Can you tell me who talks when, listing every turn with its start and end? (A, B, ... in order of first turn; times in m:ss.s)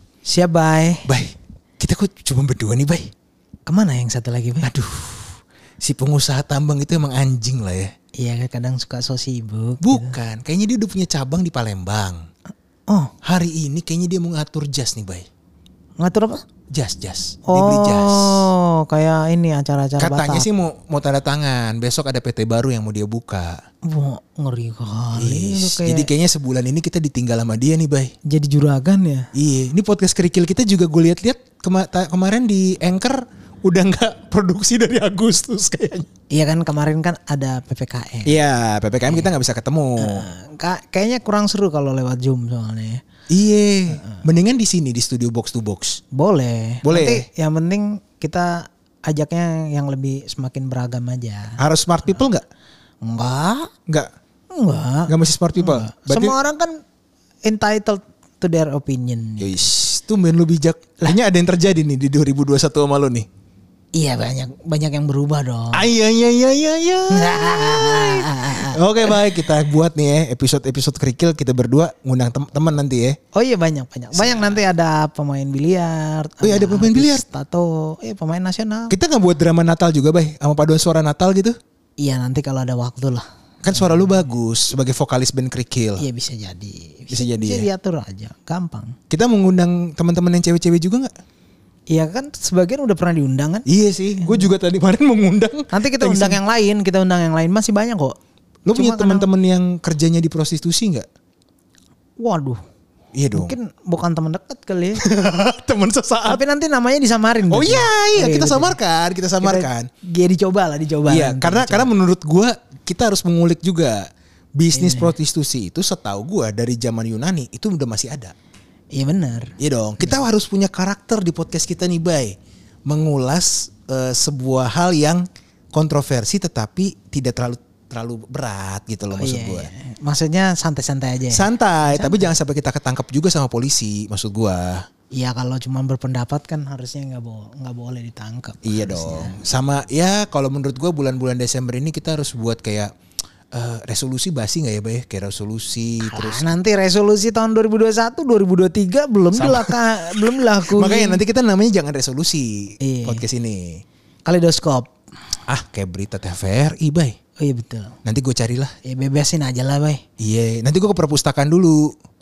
0:00.3-0:01.1 A
0:01.1-0:03.1 B
0:03.7-0:04.7 A
0:04.6-0:07.9 B
0:08.2-0:10.2 A
0:09.8-0:12.3 B
0:13.2-0:15.3 B
0:16.0-0:16.4 A
0:16.7-0:18.5 B
0:17.5-0:20.5 A
0:20.0-0:23.6 B
0:23.9-0:26.1 A
0:25.2-0:28.1 B
0:28.3-0:29.3 A
0:29.4-0:36.1 B
0:36.3-0:38.4 A
0:38.3-0:40.3 B
0:40.0-0:43.0 A
0:43.3-0:46.0 B
0:46.1-0:51.6 A
0:46.8-0:47.3 B
0:51.6-0:52.4 B
0:53.0-0:53.7 A
0:54.5-0:56.8 A
0:55.1-0:56.4 B
0:57.4-0:59.7 A
0:59.4-1:03.3 B
1:04.0-1:05.9 A
1:05.7-1:13.2 B
1:07.1-1:09.5 A
1:13.3-1:19.0 A
1:14.1-1:14.6 B
1:16.4-1:17.2 B
1:18.9-1:21.6 B
1:22.0-1:23.2 A
1:23.6-1:26.0 B
1:26.0-1:29.0 A
1:27.1-1:27.7 B
1:29.1-1:31.1 B
1:31.9-1:33.6 A
1:33.7-1:36.4 B
1:34.2-1:34.5 A
1:35.7-1:38.2 A
1:38.7-1:41.1 B
1:38.7-1:39.3 A
1:42.2-1:42.6 A
1:43.2-1:43.6 B
1:43.3-1:45.0 A
1:45.0-1:46.4 B
1:46.3-1:48.8 A
1:47.5-1:49.9 B
1:49.4-1:51.9 A
1:51.1-1:58.3 B
1:54.8-1:55.1 A
1:58.9-2:00.2 A
1:59.6-2:02.4 B
2:02.9-2:09.7 B
2:09.1-2:12.3 A
2:11.3-2:14.8 B
2:15.1-2:19.4 A
2:18.6-2:22.9 B
2:23.5-2:26.5 B
2:26.0-2:31.2 A
2:29.3-2:33.8 B
2:32.8-2:33.2 A
2:34.2-2:34.9 A
2:35.5-2:37.2 B
2:37.4-2:37.9 A
2:38.0-2:38.7 B
2:38.8-2:40.0 A
2:40.2-2:41.9 B